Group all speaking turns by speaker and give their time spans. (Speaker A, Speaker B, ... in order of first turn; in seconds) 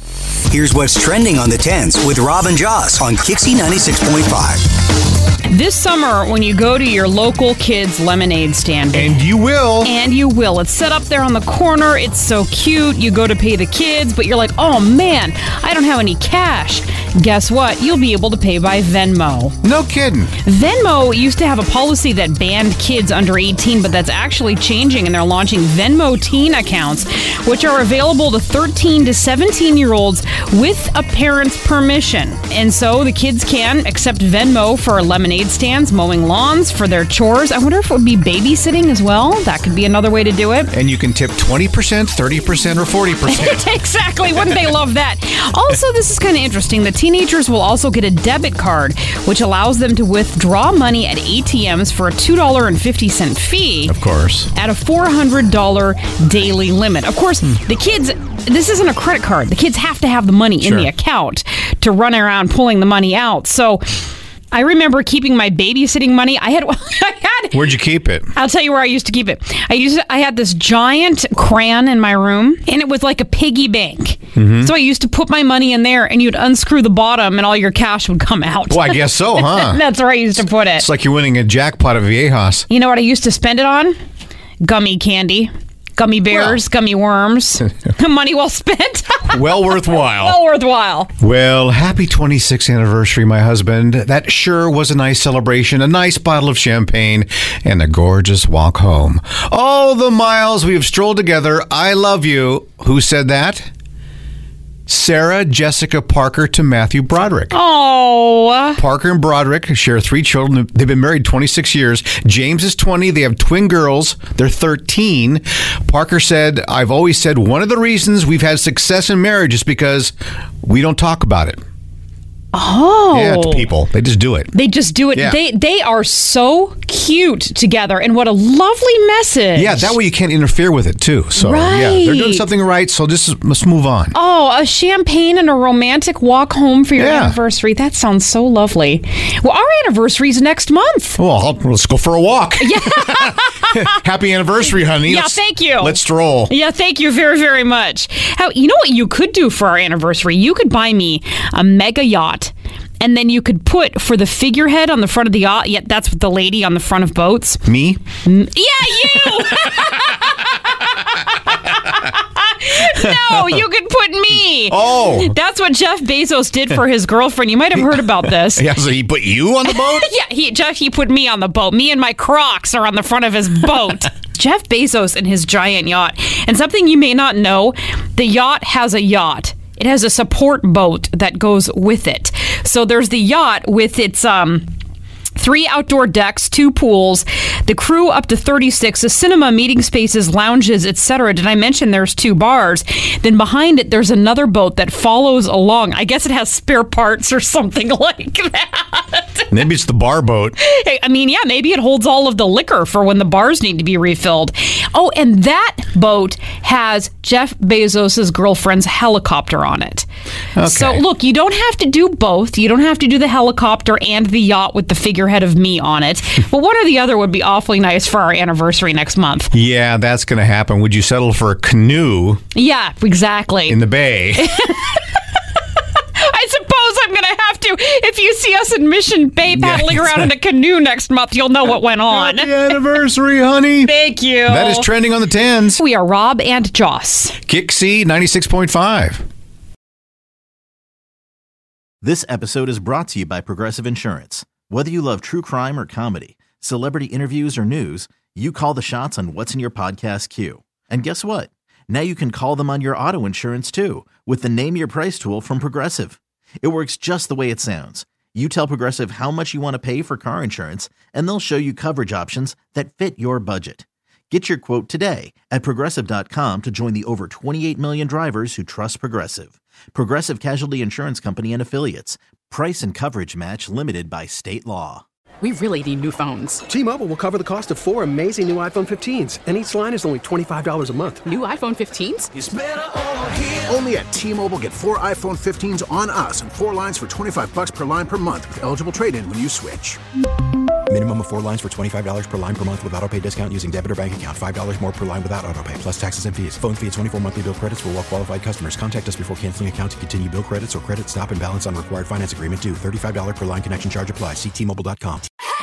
Speaker A: 0.5-4.7
Speaker B: 5.5-9.3, 9.8-19.6, 20.4-40.7, 43.3-53.9, 54.5-67.6, 68.3-80.9, 82.7-83.9, 84.6-91.1, 107.5-108.8, 122.5-123.7, 124.5-129.9, 131.3-132.5, 134.1-141.2, 142.6-143.9, 144.9-157.6, 158.2-168.7, 169.7-184.7, 185.3-199.5, 200.6-210.1, 210.6-219.5, 222.5-223.8, 224.3-225.2, 226.2-232.8, 233.8-234.9, 235.8-237.4
Speaker C: 8.9-9.9, 19.6-20.3, 40.7-43.6, 53.9-54.5, 60.6-60.9, 67.5-68.3, 74.3-74.7, 78.7-79.8, 80.8-82.7, 86.3-86.6, 89.3-90.4, 91.2-103.7, 104.9-107.6, 108.8-121.6, 123.1-124.5, 129.5-134.1, 137.0-137.4, 141.2-146.5, 157.6-158.0, 163.2-163.6, 164.7-165.3, 167.8-170.1, 199.5-200.6, 210.6-211.0, 219.5-222.4, 223.7-224.6, 229.5-230.3, 232.1-233.9, 234.4-235.8, 237.5-239.2
Speaker D: 242.0-275.0
Speaker E: 275.4-276.6, 281.3-282.3
Speaker F: 276.7-281.3
Speaker G: 282.3-290.0
Speaker H: 290.9-305.2